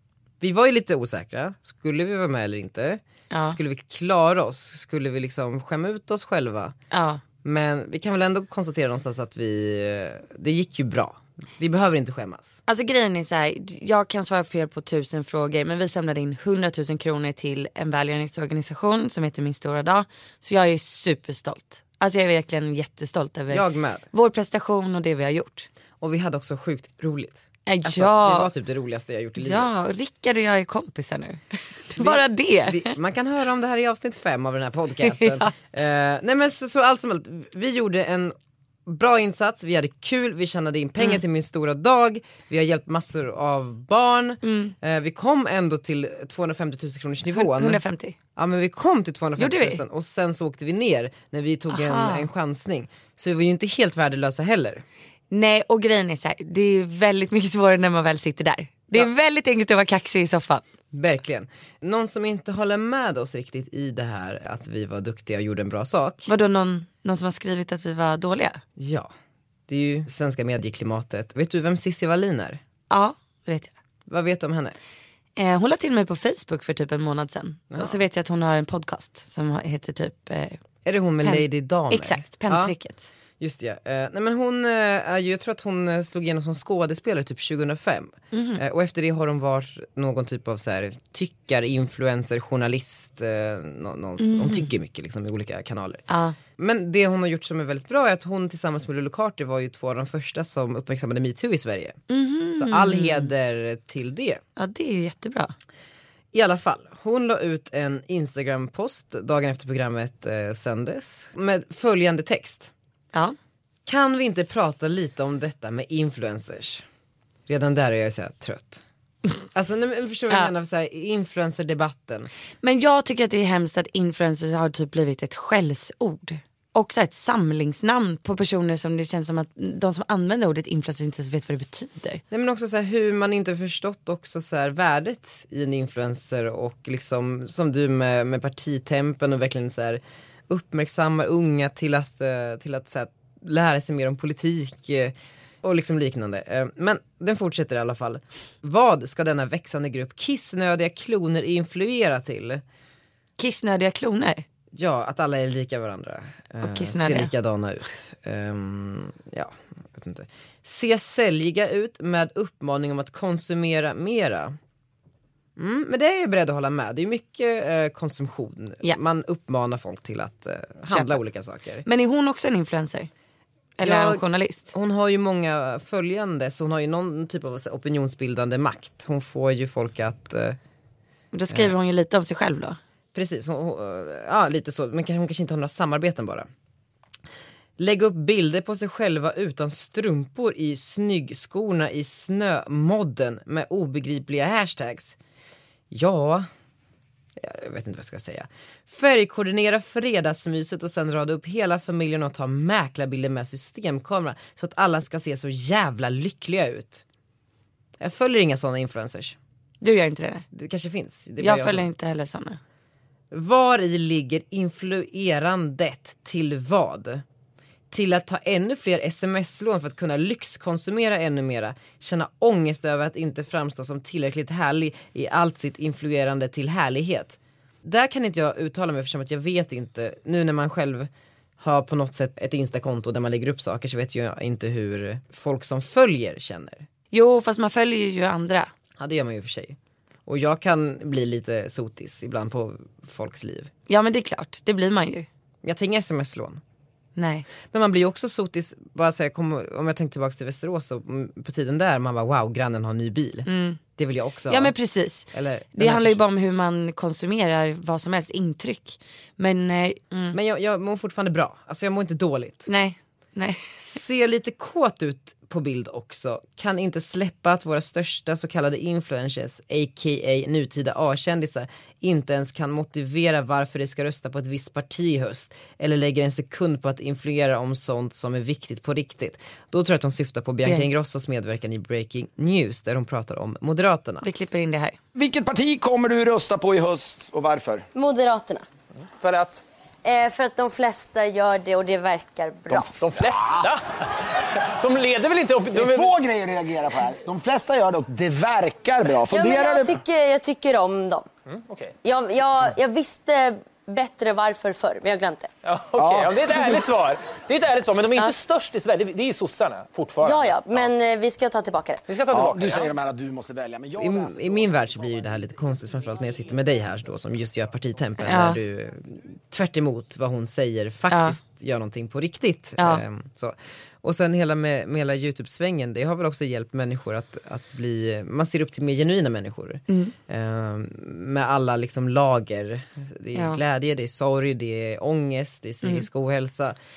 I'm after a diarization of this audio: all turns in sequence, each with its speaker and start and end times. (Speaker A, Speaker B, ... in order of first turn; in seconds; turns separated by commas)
Speaker A: 0.4-6.8, Speaker B: 3.3-3.6, Speaker B: 6.9-7.2, Speaker A: 7.4-12.6, Speaker B: 12.7-25.7, Speaker A: 23.5-24.1, Speaker A: 26.0-29.7, Speaker B: 27.6-28.5, Speaker B: 29.4-32.9, Speaker A: 32.0-47.8, Speaker B: 35.0-35.5, Speaker B: 44.4-44.7, Speaker B: 47.3-48.1, Speaker A: 48.4-54.8, Speaker B: 49.4-49.8, Speaker B: 51.7-52.3, Speaker B: 55.3-60.6, Speaker A: 60.9-66.3, Speaker B: 66.3-68.6, Speaker A: 68.8-69.1, Speaker A: 69.7-72.6, Speaker B: 72.9-73.7, Speaker A: 74.1-74.7, Speaker B: 75.3-80.6, Speaker A: 77.7-78.0, Speaker A: 80.8-82.7, Speaker B: 81.2-83.1, Speaker A: 83.4-96.0, Speaker B: 88.3-88.6, Speaker B: 94.2-94.7, Speaker B: 96.1-96.3, Speaker A: 96.6-102.0, Speaker B: 102.1-103.3, Speaker A: 102.5-104.4, Speaker B: 104.6-105.5, Speaker A: 106.3-112.7, Speaker A: 113.8-116.8, Speaker A: 117.5-118.8, Speaker A: 119.5-122.3, Speaker B: 122.6-132.2, Speaker A: 132.3-152.6, Speaker B: 153.4-154.4, Speaker A: 154.7-164.6, Speaker B: 156.6-157.3, Speaker A: 165.6-171.8, Speaker B: 170.9-171.2, Speaker B: 171.8-173.1, Speaker B: 173.8-174.7, Speaker A: 173.8-180.6, Speaker B: 181.3-182.8, Speaker A: 183.1-186.5, Speaker A: 187.8-195.2, Speaker A: 195.9-196.5, Speaker A: 197.4-207.0, Speaker A: 208.0-209.4, Speaker B: 209.8-210.4, Speaker A: 210.5-211.9, Speaker B: 211.4-212.6, Speaker A: 213.3-217.2, Speaker A: 217.9-236.8, Speaker B: 237.1-238.7, Speaker A: 239.0-243.7, Speaker B: 243.9-245.3, Speaker A: 245.6-246.6, Speaker B: 247.2-247.5, Speaker A: 247.7-254.7, Speaker B: 253.5-253.8, Speaker B: 254.5-260.4, Speaker A: 255.3-256.2, Speaker A: 260.3-262.7, Speaker B: 262.7-263.8, Speaker A: 263.8-284.2, Speaker B: 284.2-285.0, Speaker C: 285.1-287.9, Speaker D: 287.9-288.6, Speaker E: 289.2-289.6, Speaker D: 290.0-292.9, Speaker E: 292.8-293.8, Speaker E: 294.8-296.1, Speaker C: 295.7-300.0, Speaker D: 299.3-301.3, Speaker E: 301.5-301.9, Speaker D: 302.0-305.5, Speaker E: 305.6-310.9, Speaker C: 305.9-306.8, Speaker D: 310.2-312.0, Speaker E: 312.1-312.9, Speaker C: 312.3-314.7, Speaker A: 314.0-336.8, Speaker B: 318.2-318.6, Speaker B: 321.1-321.4, Speaker B: 322.8-323.0, Speaker B: 329.9-330.1, Speaker B: 333.3-333.6